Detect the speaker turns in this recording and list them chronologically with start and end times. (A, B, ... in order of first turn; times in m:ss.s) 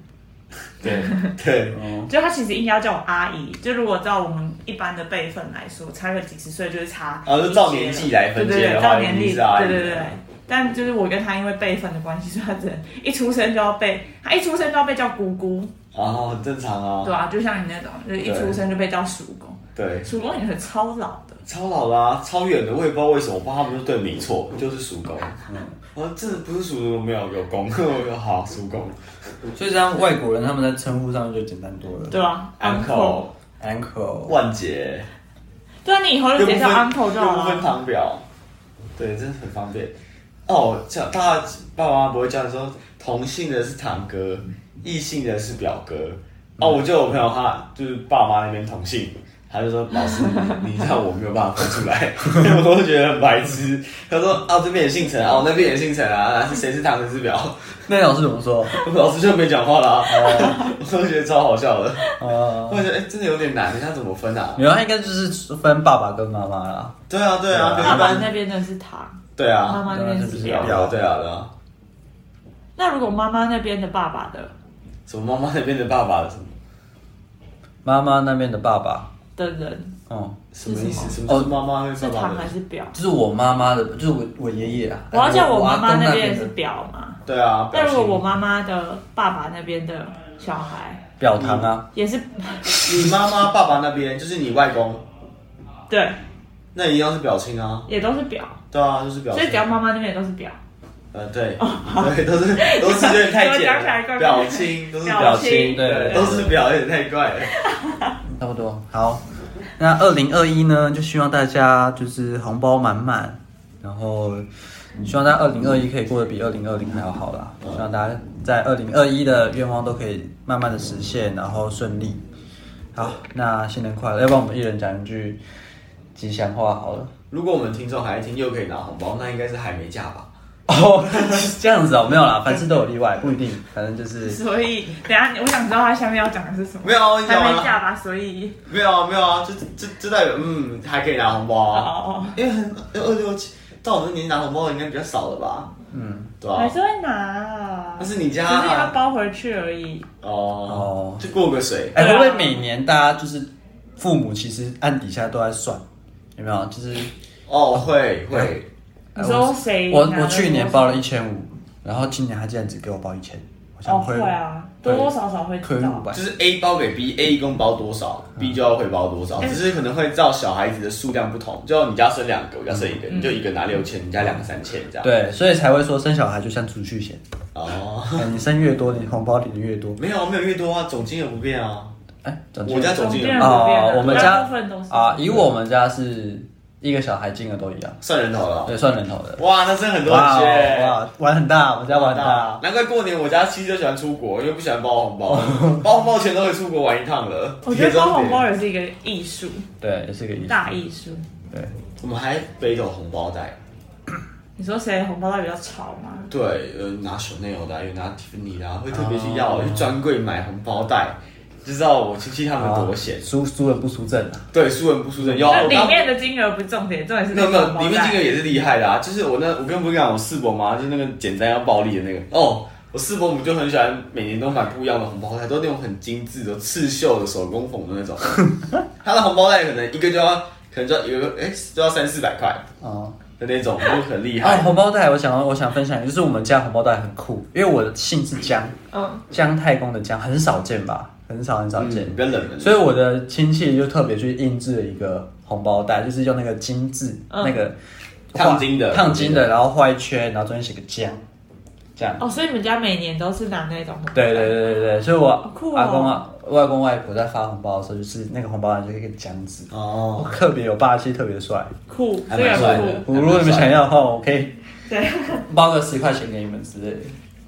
0:00.8-0:01.8 A
0:00.8-0:01.3 B
0:01.7-0:02.1 C
0:02.1-0:15.7 B
0:07.2-0:10.2 A
0:15.9-0:17.1 A
0:17.0-0:21.4 B
0:18.2-0:18.6 A
0:19.8-0:20.1 A
0:21.4-0:29.0 A
0:25.5-0:25.8 C
0:29.5-0:32.2 C
0:32.1-0:33.2 B
0:32.6-0:33.3 A
0:33.6-0:34.3 C
0:34.3-0:35.1 A
0:35.8-0:37.7 B
0:36.4-0:38.2 A
0:39.0-0:39.9 A
0:40.5-0:57.8 A
0:57.9-0:58.7 C
0:58.8-1:04.6 A
1:00.0-1:00.6 C
1:00.2-1:00.7 B
1:02.2-1:02.9 C
1:04.6-1:07.0 C
1:07.1-1:08.3 A
1:07.5-1:08.3 C
1:07.8-1:10.8 B
1:09.4-1:09.8 A
1:09.9-1:11.0 C
1:10.4-1:11.5 A
1:12.8-1:14.5 B
1:15.1-1:16.5 A
1:17.8-1:19.1 C
1:19.4-1:20.0 B
1:20.1-1:20.4 C
1:20.5-1:22.5 A
1:20.6-1:21.2 B
1:21.3-1:21.5 C
1:22.0-1:23.0 B
1:22.9-1:26.5 C
1:25.1-1:31.0 B
1:27.2-1:28.2 A
1:31.2-1:31.9 C
1:31.3-1:31.7 A
1:31.9-1:33.1 B
1:32.8-1:35.0 A
1:32.9-1:33.1 C
1:35.9-1:36.2 B
1:36.7-1:37.9 A
1:37.9-1:38.6 B
1:38.7-1:39.7 A
1:39.3-1:40.6 B
1:41.1-1:47.5 A
1:41.6-1:46.4 B
1:45.1-1:46.6 C
1:47.5-1:48.2 B
1:48.3-1:49.2 C
1:49.8-1:54.5 C
1:55.0-2:02.2 C
2:02.9-2:05.4 C
2:06.1-2:07.1 C
2:07.3-2:10.3 A
2:10.7-2:14.4 C
2:11.1-2:11.4 A
2:14.2-2:18.6 B
2:16.8-2:17.8 A
2:18.6-2:25.7 A
2:21.7-2:22.4 B
2:25.9-2:26.3 C
2:26.4-2:26.7 A
2:26.5-2:30.1 B
2:28.0-2:29.0 A
2:30.2-2:32.0 A
2:30.6-2:31.2 C
2:31.9-2:35.8 C
2:32.0-2:32.6 B
2:36.4-2:37.1 C
2:37.5-2:38.7 A
2:39.2-2:45.1 C
2:39.2-2:41.0 B
2:43.8-2:46.1 B
2:45.6-2:46.2 C
2:46.1-2:55.1 A
2:49.4-2:49.6 B
2:53.1-2:53.4 B
2:55.0-2:57.2 C
2:57.5-2:58.4 A
2:58.2-3:00.0 C
3:00.0-3:01.9 A
3:02.2-3:08.0 C
3:02.6-3:04.5 A
3:02.9-3:05.5 B
3:08.0-3:08.7 A
3:08.6-3:09.4 C
3:09.4-3:11.0 A
3:10.0-3:12.6 C
3:11.9-3:18.4 A
3:15.3-3:15.8 C
3:17.6-3:19.7 B
3:19.8-3:20.7 C
3:20.4-3:21.2 B
3:22.0-3:23.6 A
3:24.6-3:26.3 B
3:26.3-3:33.2 A
3:28.9-3:29.9 C
3:32.5-3:34.5 C
3:34.5-3:36.0 A
3:35.2-3:35.7 C
3:35.4-3:38.2 B
3:37.3-3:48.4 A
3:49.0-3:52.6 A
3:52.8-3:53.2 C
3:53.4-3:54.7 A
3:54.4-3:58.7 C
3:58.9-3:59.2 B
3:59.3-4:07.8 C
4:01.8-4:02.9 A
4:07.3-4:07.6 B
4:08.3-4:11.2 C
4:08.3-4:09.5 A
4:12.0-4:12.2 C
4:12.2-4:14.9 B
4:14.1-4:21.7 C
4:15.4-4:16.2 B
4:19.7-4:20.3 A
4:21.9-4:23.1 B
4:22.3-4:23.8 A
4:22.5-4:24.5 C
4:24.9-4:25.5 B
4:25.5-4:27.2 C